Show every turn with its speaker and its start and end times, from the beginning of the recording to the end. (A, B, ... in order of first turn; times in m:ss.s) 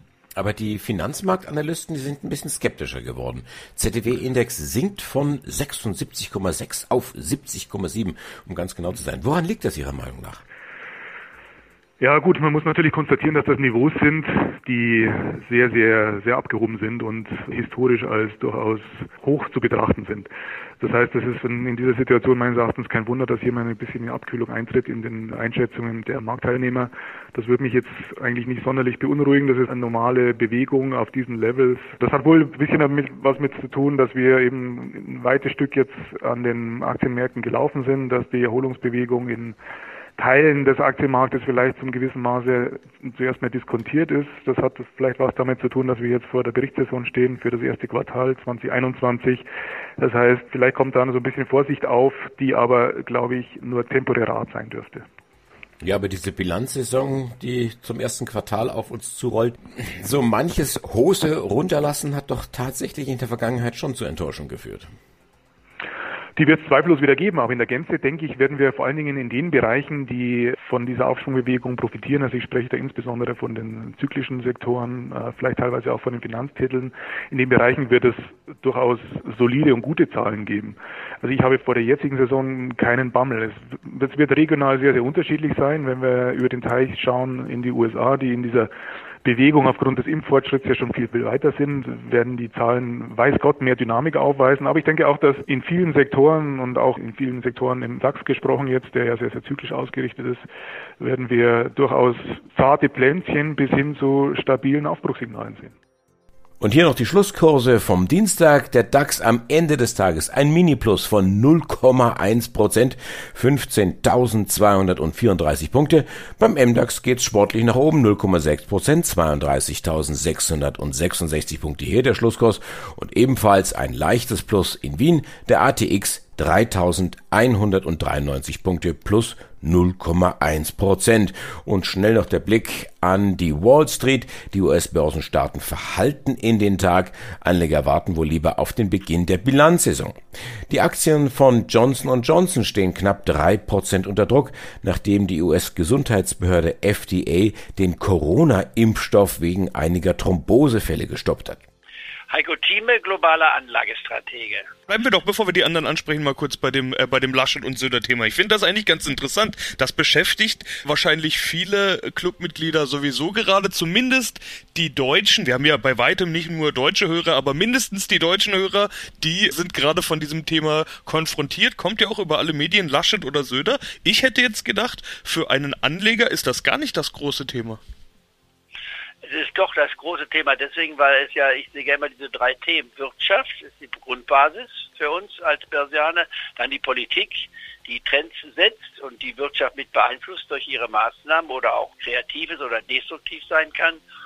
0:00.3-0:10.4 A
0:12.0-0:20.3 B
0:20.8-0:39.6 B
0:40.2-0:49.4 B
0:50.0-0:55.0 B
0:55.8-1:04.9 A
1:06.4-1:28.7 B
1:29.2-1:40.4 B
1:41.0-1:45.7 B
1:46.6-2:20.2 A
2:20.7-2:31.6 A
2:32.3-2:34.7 C
2:34.9-2:57.8 D
2:59.2-3:14.0 C